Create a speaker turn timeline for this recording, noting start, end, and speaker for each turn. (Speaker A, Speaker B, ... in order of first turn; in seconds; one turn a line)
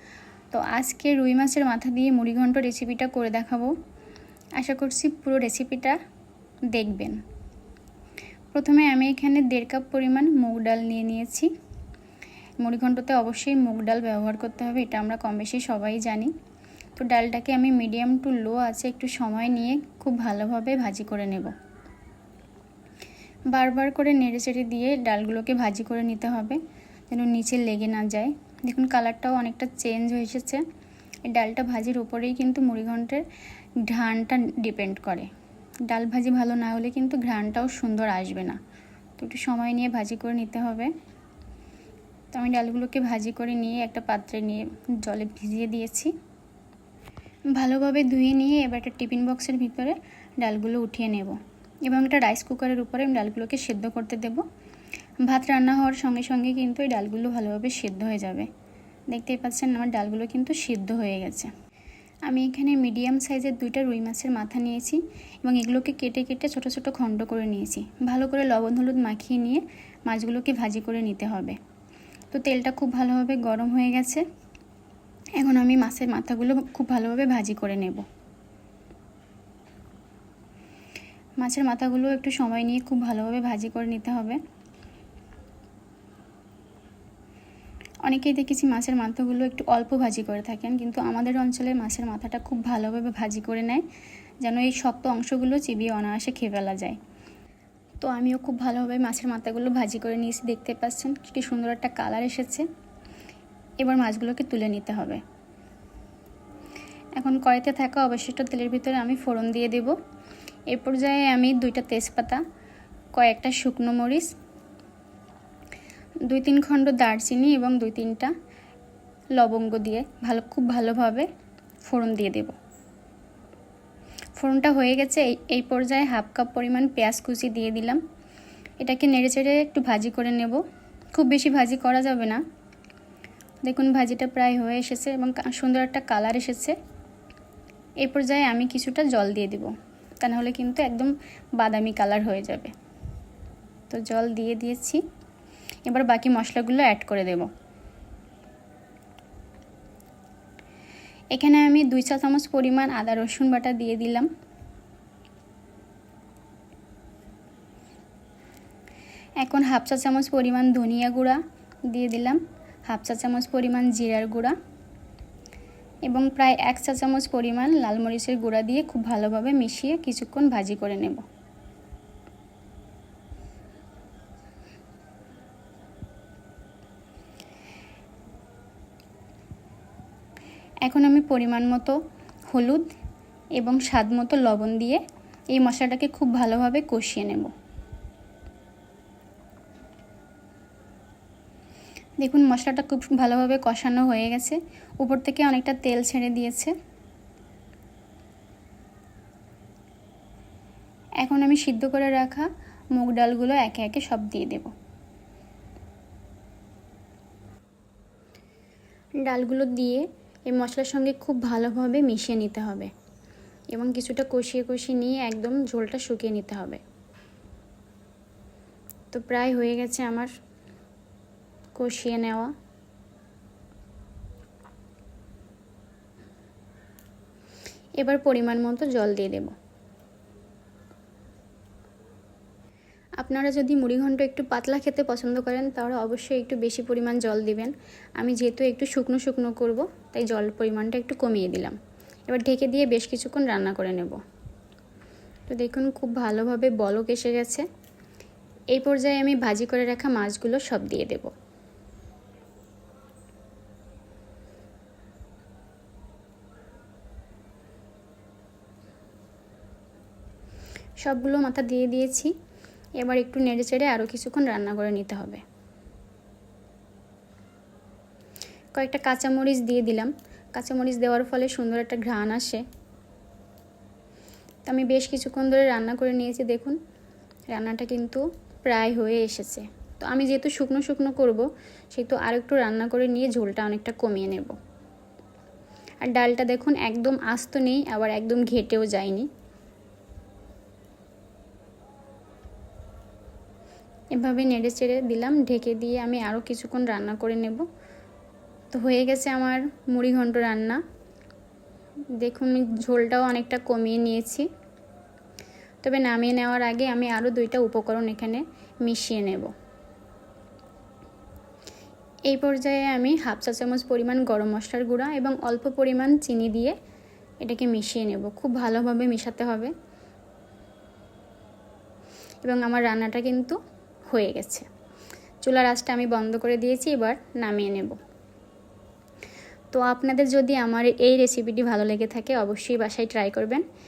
Speaker A: 0.5-3.7
Speaker A: 4.6-6.0
Speaker A: 6.7-7.2
Speaker A: 8.5-11.5
Speaker A: 12.6-16.3
Speaker A: 17.0-21.5
Speaker A: 23.5-30.6
Speaker A: 31.3-33.2
Speaker A: 33.8-35.3
Speaker A: 35.9-38.6
Speaker A: 39.2-40.9
Speaker A: 42.3-46.1
Speaker A: 47.5-54.4
Speaker A: 55.2-58.5
Speaker A: 59.1-61.5
Speaker A: 62.2-71.6
Speaker A: 72.3-74.2
Speaker A: 75.3-78.0
Speaker A: 81.4-84.4
Speaker A: 88.0-93.8
Speaker A: 94.4-97.0
Speaker A: 98.0-102.7
Speaker A: 103.8-105.2
Speaker A: 107.2-110.0
Speaker A: 110.7-112.4
Speaker A: 113.1-114.3
Speaker A: 116.2-118.3
Speaker A: 119.3-121.3
Speaker A: 121.8-122.5
Speaker A: 124.3-128.0
Speaker A: 128.8-130.6
Speaker A: 131.1-132.4
Speaker A: 133.6-136.8
Speaker A: 138.0-142.7
Speaker A: 143.9-145.0
Speaker A: 145.8-147.5
Speaker A: 151.3-154.3
Speaker A: 159.4-164.6
Speaker A: 166.1-171.2
Speaker A: 180.8-182.0
Speaker A: 182.5-182.9
Speaker A: 183.6-185.0
Speaker A: 185.5-187.5
Speaker A: 192.2-196.7
Speaker A: 201.2-204.7
Speaker A: 209.2-212.9
Speaker A: 213.7-216.8
Speaker A: 219.1-220.3
Speaker A: 221.8-222.5
Speaker A: 228.0-229.5
Speaker A: 233.2-244.2
Speaker A: 245.5-247.6
Speaker A: 248.7-251.3
Speaker A: 261.0-262.3
Speaker A: 263.0-265.4
Speaker A: 268.7-272.6
Speaker A: 274.6-276.8
Speaker A: 277.5-284.6
Speaker A: 286.0-289.3
Speaker A: 294.1-297.6
Speaker A: 298.7-300.8
Speaker A: 302.2-304.5
Speaker A: 305.8-309.5
Speaker A: 312.3-316.8
Speaker A: 317.4-319.7
Speaker A: 322.4-323.6
Speaker A: 324.1-324.6
Speaker A: 325.4-328.0
Speaker A: 329.7-333.6